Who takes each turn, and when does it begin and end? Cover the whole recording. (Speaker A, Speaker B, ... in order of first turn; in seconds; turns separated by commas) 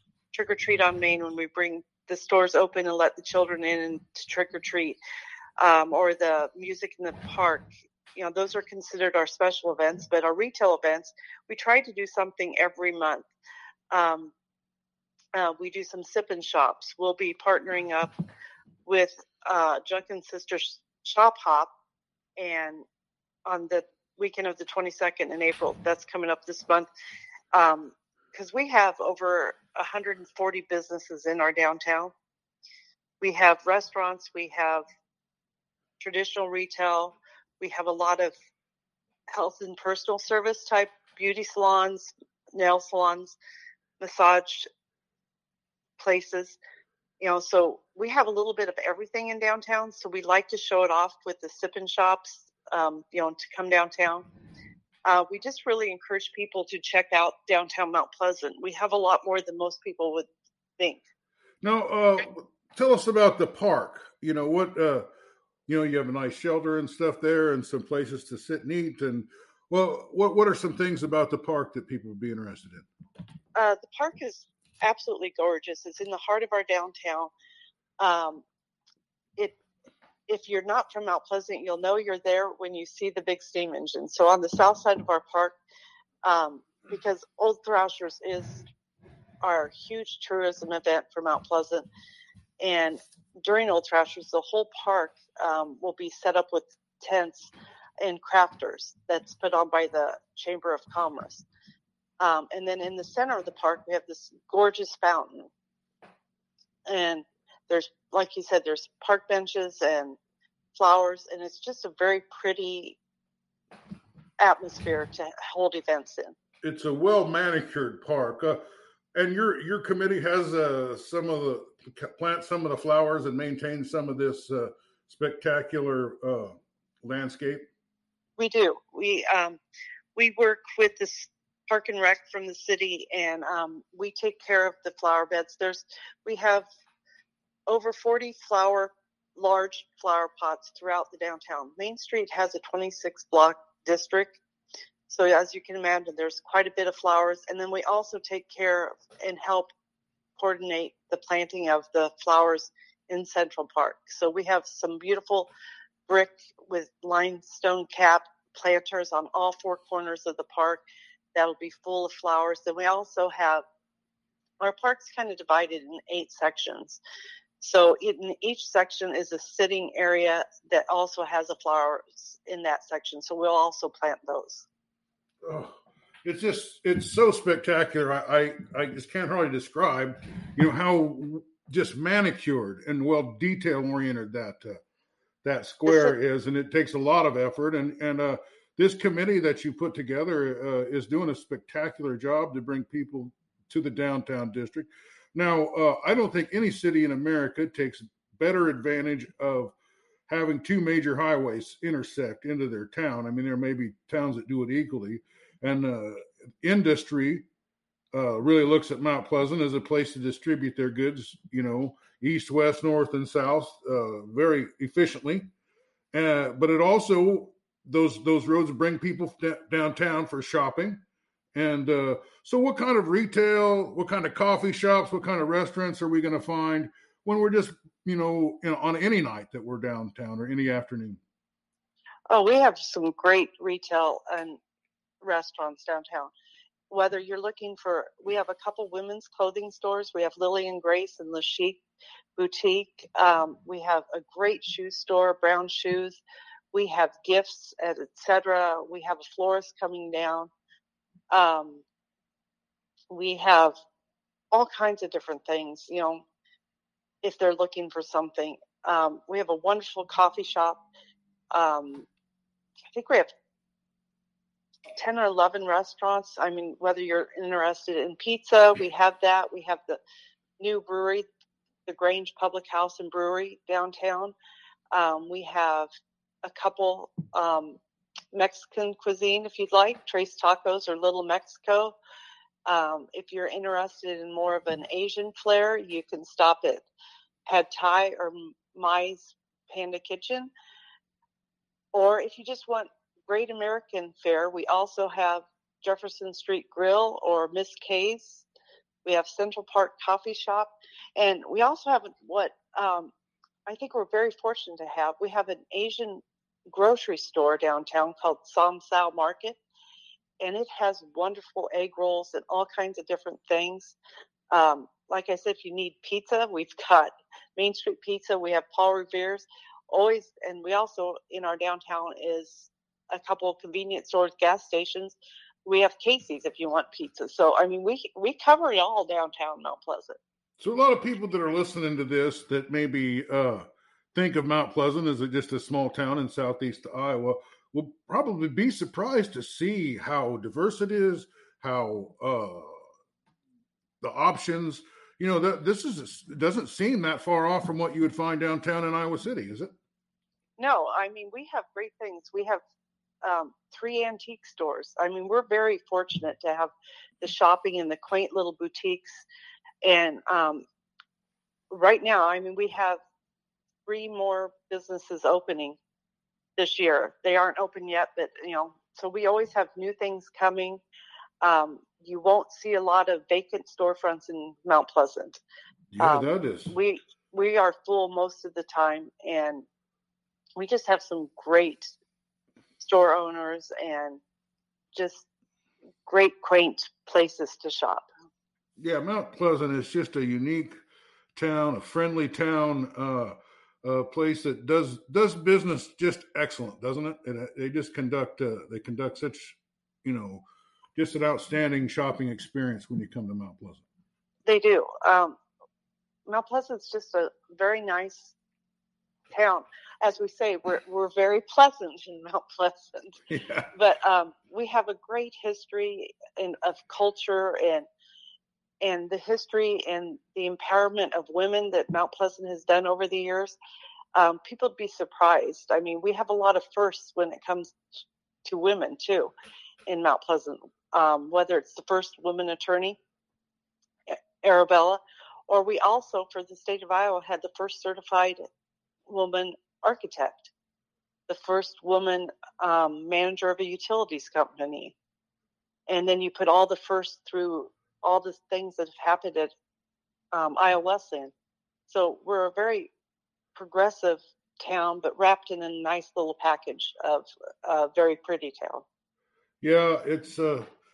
Speaker A: 0.3-5.0, Speaker A: 5.6-13.3, Speaker A: 13.9-14.3, Speaker A: 15.3-18.1, Speaker A: 18.8-21.7, Speaker A: 22.4-22.8, Speaker A: 23.4-26.9, Speaker A: 27.5-32.1, Speaker A: 33.2-34.8, Speaker A: 36.0-38.3, Speaker A: 39.3-43.4, Speaker A: 44.0-44.7, Speaker A: 46.0-46.6, Speaker A: 47.2-54.2, Speaker A: 55.0-60.3, Speaker B: 61.6-65.0, Speaker B: 65.7-72.9, Speaker A: 73.5-77.3, Speaker A: 78.0-78.4, Speaker A: 80.3-85.6, Speaker A: 86.2-88.6, Speaker A: 89.4-91.9, Speaker A: 92.6-101.5, Speaker A: 102.2-105.5, Speaker A: 106.9-110.2, Speaker A: 110.7-113.0, Speaker A: 114.4-116.3, Speaker B: 116.6-118.6, Speaker B: 119.1-127.7, Speaker A: 128.4-129.6, Speaker A: 130.2-136.7, Speaker A: 137.7-144.4, Speaker A: 145.1-149.7, Speaker A: 150.4-155.5, Speaker A: 156.1-160.8, Speaker A: 161.3-163.6, Speaker A: 164.6-167.0, Speaker A: 167.6-174.7, Speaker B: 175.4-184.8, Speaker B: 185.4-199.7, Speaker A: 185.8-186.1, Speaker B: 200.3-207.4, Speaker B: 208.1-215.5, Speaker B: 216.1-221.0, Speaker B: 221.5-231.2, Speaker A: 232.3-234.6, Speaker A: 235.2-236.3, Speaker A: 236.9-241.8, Speaker A: 242.3-246.2, Speaker A: 246.7-250.5, Speaker A: 251.3-251.8, Speaker A: 253.1-253.8, Speaker A: 254.5-256.2, Speaker A: 257.2-260.8, Speaker A: 261.5-262.1, Speaker A: 262.9-263.3, Speaker A: 264.9-270.0, Speaker A: 270.6-271.2, Speaker A: 271.9-274.3, Speaker A: 274.9-275.9, Speaker A: 276.4-277.8, Speaker A: 278.3-282.0, Speaker A: 282.6-286.9, Speaker A: 287.4-290.5, Speaker A: 291.9-298.4, Speaker A: 299.0-303.1, Speaker A: 303.6-309.6, Speaker A: 310.4-313.9, Speaker A: 314.5-330.2, Speaker B: 330.6-342.8, Speaker B: 344.0-349.7, Speaker A: 350.6-352.6, Speaker A: 353.2-359.2, Speaker A: 359.8-360.6, Speaker A: 361.7-363.0, Speaker A: 363.9-365.8, Speaker A: 366.6-370.8, Speaker A: 371.4-375.4, Speaker B: 375.9-376.7, Speaker A: 376.0-379.6, Speaker A: 380.6-381.9, Speaker A: 382.8-384.2, Speaker A: 384.9-385.2, Speaker A: 386.1-388.1, Speaker B: 388.8-390.8, Speaker B: 391.3-400.4, Speaker B: 400.9-403.8, Speaker A: 404.4-405.4, Speaker A: 406.3-408.3, Speaker A: 409.3-413.1, Speaker B: 413.3-413.7, Speaker A: 413.7-417.9, Speaker A: 418.8-423.6, Speaker A: 424.1-427.7, Speaker A: 428.4-429.3, Speaker A: 429.9-433.0, Speaker A: 434.1-438.4, Speaker A: 439.1-440.5, Speaker A: 441.3-444.9, Speaker A: 445.9-449.5, Speaker A: 450.3-451.3, Speaker A: 451.9-452.9, Speaker A: 453.5-458.8, Speaker B: 459.6-460.7